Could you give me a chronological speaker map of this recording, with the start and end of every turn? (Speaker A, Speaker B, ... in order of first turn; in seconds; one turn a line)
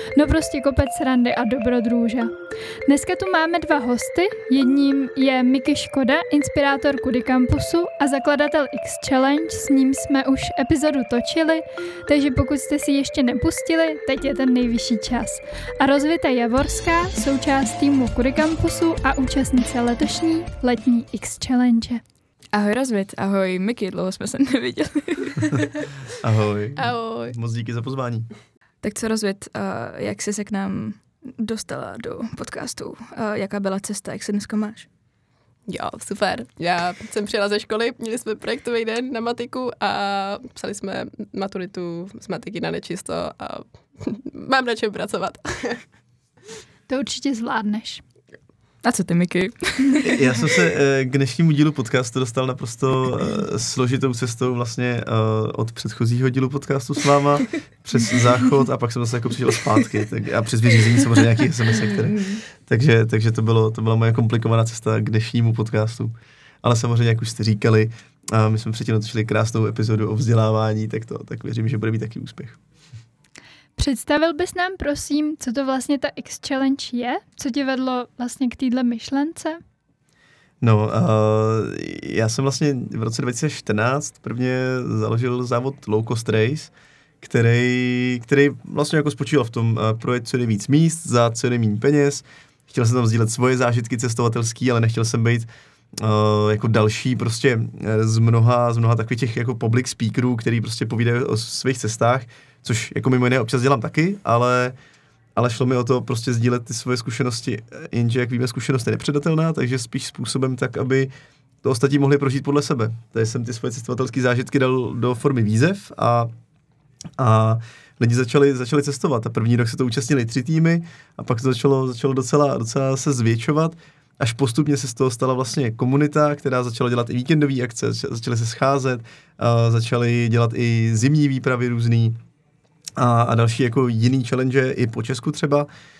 Speaker A: 0.1-2.4
Speaker A: 2.9-22.0
Speaker B: 22.5-25.8
Speaker C: 26.2-28.3
Speaker D: 26.8-27.4
Speaker B: 28.8-34.9
Speaker D: 35.7-45.8
Speaker A: 46.9-48.0
Speaker B: 48.8-50.2
Speaker C: 50.0-72.6
Speaker A: 73.8-79.6
Speaker C: 80.6-104.8
Speaker C: 105.4-111.1
Speaker C: 111.6-116.3
Speaker C: 117.2-132.2
Speaker C: 133.0-135.7